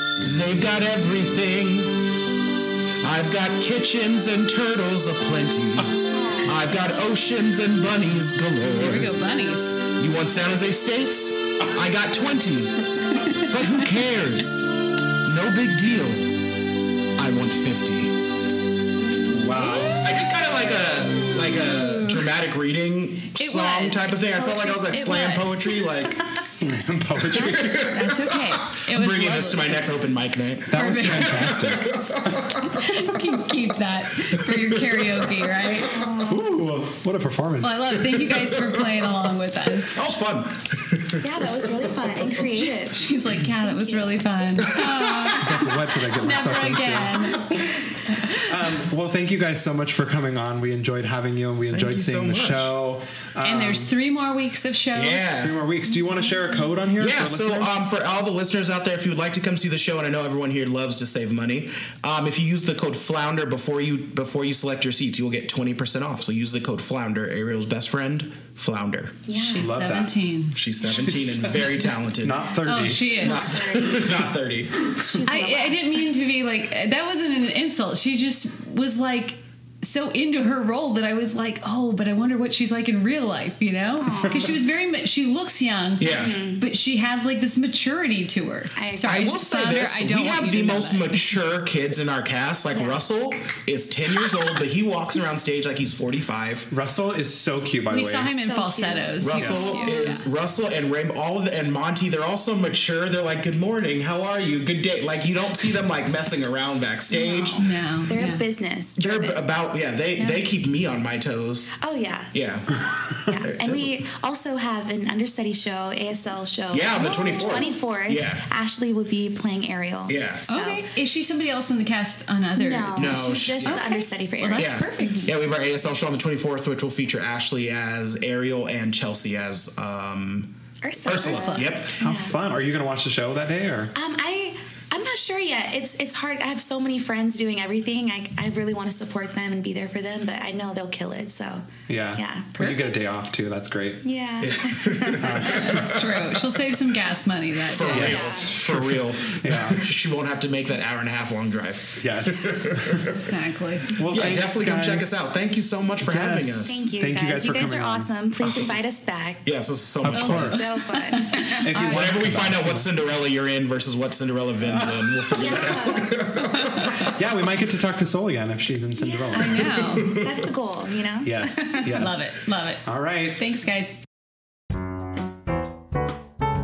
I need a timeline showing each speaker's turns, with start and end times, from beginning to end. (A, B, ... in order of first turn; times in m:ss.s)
0:00.2-0:02.0 A
0:03.0-0:09.1 A
0:06.1-0:06.7 B
0:08.7-0:09.8 C
0:10.0-0:14.7 A
0:13.2-0:13.5 C
0:15.2-0:16.3 A
0:17.2-0:18.2 A
0:19.3-0:20.0 D
0:19.9-0:26.4 A
0:23.4-0:25.8 C
0:24.3-0:26.4 B
0:26.4-0:28.0 D
0:27.3-0:32.8 A
0:27.5-0:29.9 C
0:30.7-0:32.5 D
0:30.7-0:31.6 C
0:32.6-0:36.0 C
0:34.4-0:35.7 A
0:35.9-0:36.5 B
0:36.2-0:38.0 D
0:37.6-0:40.0 C
0:38.1-0:38.9 A
0:39.9-0:42.1 A
0:41.2-0:45.4 B
0:42.6-0:45.6 C
0:45.4-0:47.5 D
0:46.1-0:48.5 C
0:48.3-0:53.9 D
0:51.7-0:52.7 A
0:53.4-0:55.4 C
0:54.9-0:55.6 A
0:55.3-0:57.9 D
0:57.0-1:09.2 A
1:09.3-1:09.8 B
1:09.3-1:10.6 C
1:09.6-1:10.1 D
1:10.5-1:12.5 A
1:10.8-1:13.4 D
1:12.6-1:13.7 C
1:13.1-1:14.9 A
1:13.2-1:14.3 B
1:14.9-1:16.1 B
1:15.3-1:31.3 C
1:24.0-1:24.6 B
1:26.0-1:26.4 A
1:26.0-1:26.6 B
1:28.8-1:29.3 B
1:29.0-1:36.7 A
1:32.7-1:33.0 B
1:36.7-1:38.4 D
1:37.9-1:40.2 C
1:38.4-1:40.2 B
1:39.2-1:47.6 A
1:39.4-1:39.7 D
1:47.1-1:49.4 B
1:47.6-1:48.4 C
1:49.0-1:51.8 A
1:50.2-1:50.4 C
1:51.8-1:52.4 B
1:52.3-1:53.9 A
1:53.3-2:00.9 B
1:56.7-1:58.4 A
2:00.1-2:00.5 A
2:00.5-2:05.3 C
2:02.6-2:05.3 B
2:02.9-2:03.8 A
2:04.6-2:12.0 A
2:10.8-2:12.4 B
2:11.2-2:11.8 C
2:12.0-2:13.9 D
2:14.0-2:22.6 B
2:21.9-2:24.0 D
2:22.6-2:22.9 C
2:24.0-2:25.6 B
2:24.4-2:26.3 A
2:25.2-2:26.0 D
2:25.5-2:28.4 C
2:27.7-2:33.3 A
2:27.8-2:28.6 B
2:27.9-2:29.9 D
2:32.0-2:33.1 D
2:33.2-2:34.0 C
2:33.9-2:35.3 D
2:34.1-2:36.9 A
2:36.0-2:38.5 D
2:36.6-2:39.5 B
2:38.4-2:38.8 A
2:39.4-2:40.6 A
2:40.0-2:40.8 D
2:40.1-2:42.2 C
2:40.2-2:41.6 B
2:41.3-2:42.9 D
2:41.8-2:47.1 A
2:44.6-2:45.6 D
2:45.3-2:46.3 B
2:46.6-2:47.1 C
2:47.0-2:49.8 D
2:49.0-2:52.0 B
2:49.3-2:50.2 C
2:51.2-2:53.6 D
2:51.9-2:52.8 C
2:53.4-2:54.0 C